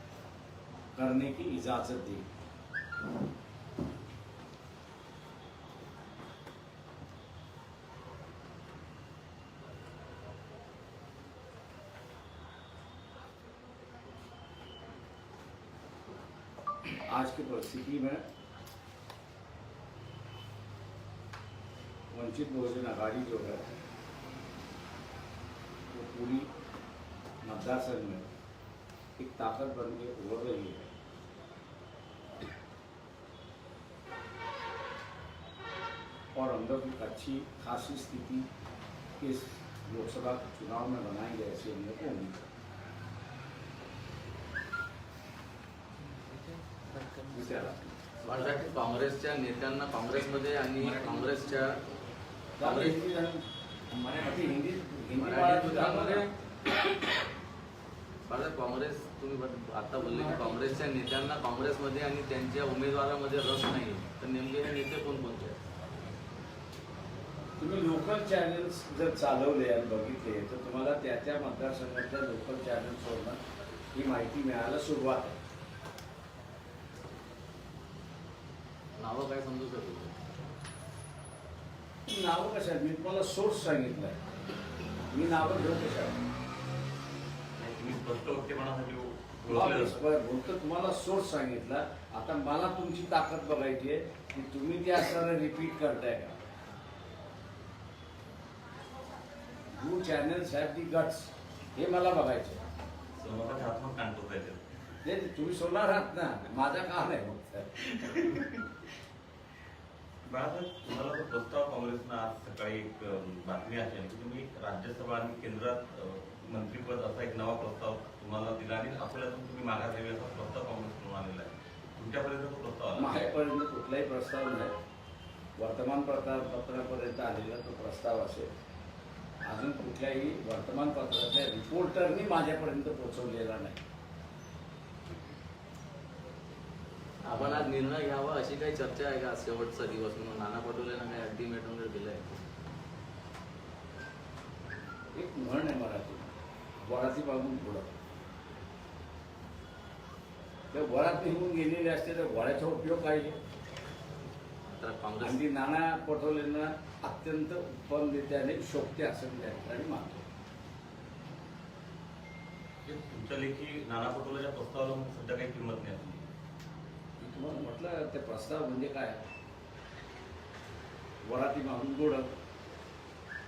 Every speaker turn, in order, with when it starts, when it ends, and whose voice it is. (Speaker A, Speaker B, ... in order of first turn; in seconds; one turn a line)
Speaker A: 0.9-2.3
Speaker A: 16.9-18.2
Speaker A: 22.1-23.7
Speaker A: 25.9-26.5
Speaker A: 27.4-28.3
Speaker A: 29.2-30.9
Speaker A: 36.3-38.5
Speaker A: 39.2-42.4
Speaker A: 47.3-48.6
Speaker B: 48.2-51.8
Speaker A: 52.6-53.4
Speaker B: 52.6-53.0
Speaker A: 54.0-56.2
Speaker B: 55.1-56.3
Speaker B: 58.2-65.6
Speaker A: 67.6-73.4
Speaker A: 73.9-75.4
Speaker B: 79.0-80.1
Speaker A: 82.1-84.2
Speaker A: 85.1-86.2
Speaker C: 87.5-90.0
Speaker A: 89.5-96.4
Speaker A: 99.7-102.6
Speaker C: 103.2-104.6
Speaker A: 105.0-108.9
Speaker C: 110.2-123.2
Speaker A: 122.9-124.8
Speaker A: 125.6-128.5
Speaker A: 129.4-133.8
Speaker B: 137.2-142.3
Speaker A: 145.1-147.9
Speaker A: 150.7-153.4
Speaker B: 154.7-155.4
Speaker A: 155.2-160.2
Speaker C: 162.8-166.3
Speaker A: 167.2-169.2
Speaker A: 171.2-172.3